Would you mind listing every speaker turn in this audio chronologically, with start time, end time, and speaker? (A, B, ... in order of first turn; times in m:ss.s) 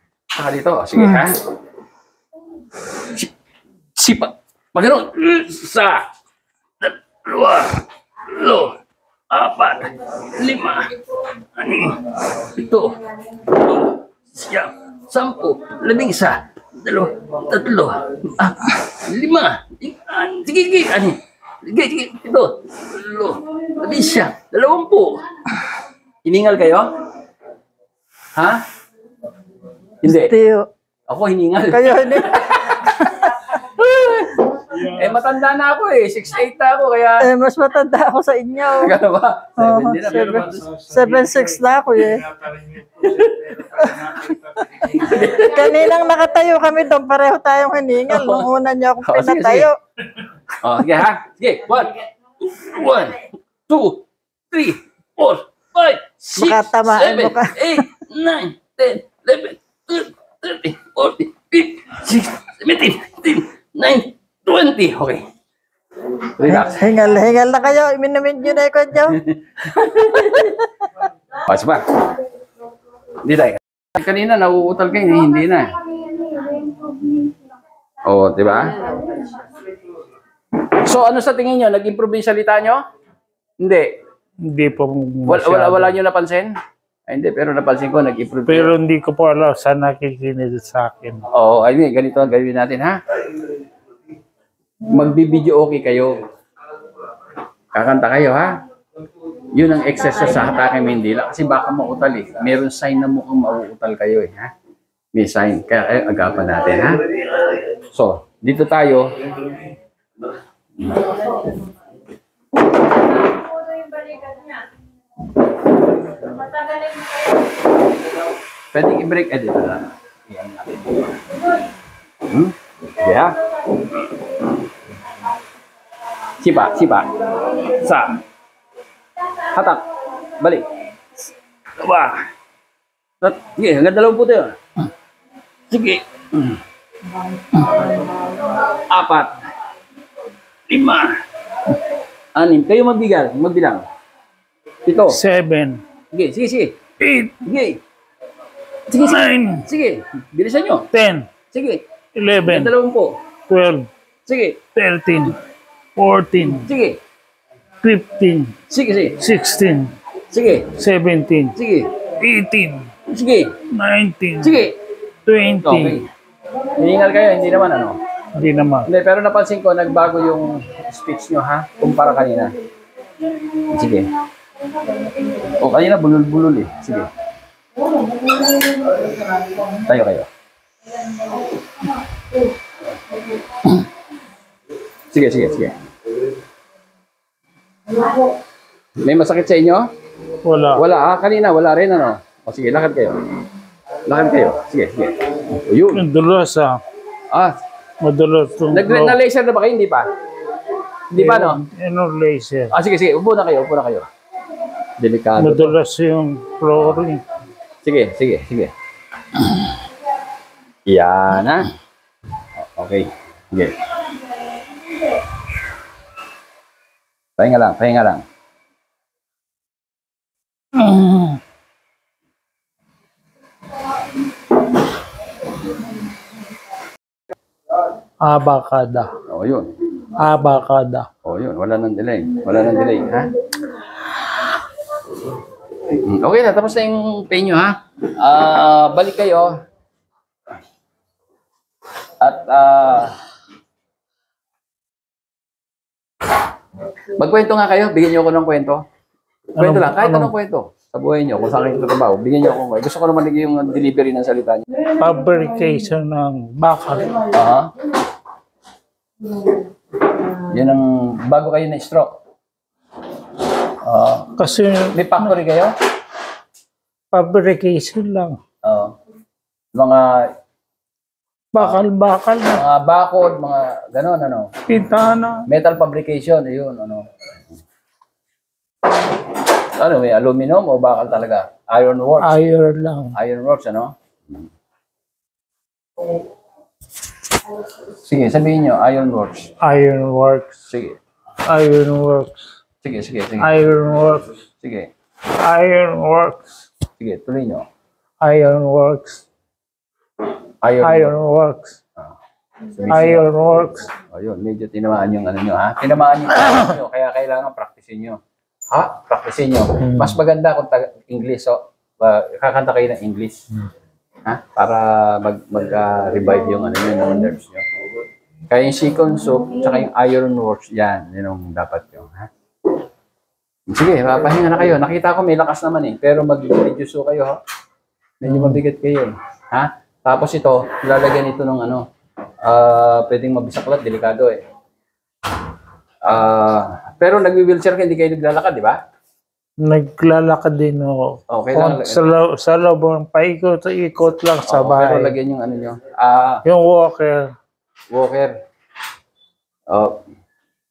0:00.3-0:01.4 A
0:02.9-0:03.3 A
0:04.0-0:06.0 A
0:06.8-0:08.8 A
0:09.3-0:10.9 A
0:11.6-0:25.2 A
0:26.2-0:26.9 A
0:28.4-0:28.6 A
0:30.0-0:30.3 A
0:30.0-0:30.7 B
0:31.1-0:37.3 A
0:31.7-0:33.4 B
0:37.2-0:39.0 B
0:38.8-0:40.7 A
0:39.6-0:42.3 B
0:43.0-0:43.7 A
0:43.7-0:49.7 B
0:44.9-0:45.7 A
0:48.1-0:48.4 A
0:49.0-0:49.7 A
0:50.6-0:52.0 A
0:52.5-1:05.2 A
0:56.3-0:57.8 B
1:06.2-1:06.8 A
1:06.4-1:09.2 B
1:09.2-1:10.5 A
1:11.4-1:12.0 A
1:13.2-1:15.8 A
1:18.0-1:19.1 A
1:20.7-1:22.8 A
1:23.6-1:23.9 A
1:24.5-1:25.8 C
1:25.2-1:26.5 A
1:27.1-1:28.7 A
1:28.5-1:31.2 C
1:31.3-1:33.0 A
1:34.8-1:36.1 A
1:37.7-1:38.5 A
1:39.5-1:44.5 A
1:45.1-1:47.2 A
1:47.8-1:49.5 A
1:50.8-1:51.2 A
1:58.7-2:01.4 A
2:02.2-2:04.0 A
2:06.4-2:08.2 A
2:09.5-2:10.6 A
2:11.8-2:12.2 A
2:13.2-2:14.6 A
2:15.7-2:16.6 A
2:17.6-2:17.9 A
2:18.6-2:19.4 A
2:20.7-2:21.2 A
2:22.3-2:23.8 A
2:24.8-2:25.2 A
2:25.1-2:25.8 C
2:26.1-2:26.8 A
2:27.0-2:27.3 C
2:27.4-2:27.8 A
2:28.9-2:29.6 C
2:29.6-2:30.9 A
2:30.9-2:31.3 C
2:31.5-2:31.8 A
2:32.2-2:32.7 C
2:32.4-2:33.2 A
2:33.5-2:33.9 C
2:34.2-2:34.6 A
2:34.7-2:35.4 C
2:36.0-2:36.7 C
2:36.6-2:37.0 A
2:37.8-2:38.5 C
2:38.7-2:39.2 A
2:39.2-2:39.9 C
2:40.3-2:40.8 A
2:40.8-2:41.5 C
2:41.5-2:41.9 A
2:42.2-2:42.9 C
2:43.1-2:43.6 A
2:43.7-2:44.7 C
2:44.4-2:44.8 A
2:45.2-2:46.0 C
2:45.6-2:46.1 A
2:46.7-2:48.0 A
2:48.4-2:48.9 C
2:48.8-2:52.5 A
2:53.6-2:54.1 A
2:55.4-2:57.1 A
2:59.7-3:00.3 A
3:05.1-3:05.8 A
3:09.0-3:09.8 A
3:10.4-3:10.8 C
3:10.7-3:13.2 A
3:14.0-3:16.0 A
3:15.9-3:16.8 C
3:18.0-3:19.2 C
3:18.7-3:20.1 A
3:21.1-3:21.6 A
3:21.2-3:22.7 C
3:22.7-3:24.1 A
3:25.0-3:25.7 A
3:25.4-3:27.2 C
3:26.7-3:27.0 A
3:27.8-3:28.7 A
3:30.9-3:31.7 A
3:32.6-3:33.8 A
3:37.4-3:38.2 A
3:40.8-3:41.4 C
3:48.2-3:49.1 C
3:49.2-3:49.7 A
3:50.2-3:51.1 C
3:51.2-3:53.3 A
3:55.9-3:59.5 A
4:02.2-4:03.1 A
4:07.1-4:08.8 A
4:09.6-4:14.6 A
4:09.7-4:10.3 C
4:15.0-4:17.1 C
4:17.3-4:17.7 A
4:20.4-4:22.1 A
4:23.8-4:24.3 A
4:24.4-4:25.3 C
4:24.9-4:25.7 A
4:27.1-4:28.4 C
4:28.6-4:28.9 A
4:29.7-4:30.3 A
4:31.6-4:32.6 C
4:32.4-4:34.5 A
4:34.7-4:35.4 C
4:35.5-4:37.0 A
4:39.8-4:42.4 A
4:42.2-4:43.1 C
4:43.1-4:43.9 A
4:48.0-4:49.5 A
4:49.6-4:50.5 C
4:50.7-4:51.0 A
4:51.5-4:52.4 C
4:52.8-4:53.6 A
4:53.4-4:54.3 C
4:54.6-4:54.9 A
4:55.4-4:56.5 C
4:57.0-4:57.6 A
4:58.2-4:59.2 C
5:00.6-5:01.1 A
5:00.8-5:01.8 C
5:02.7-5:03.2 A
5:02.9-5:03.9 C
5:04.1-5:08.2 A
5:08.7-5:13.4 A
5:14.2-5:17.6 A
5:18.5-5:22.3 A
5:23.7-5:27.4 A
5:28.2-5:31.8 A
5:32.4-5:34.4 A
5:36.0-5:38.8 A
5:39.6-5:45.1 C
5:41.3-5:42.1 A
5:44.4-5:46.4 A
5:46.5-5:47.3 C
5:47.9-5:48.3 A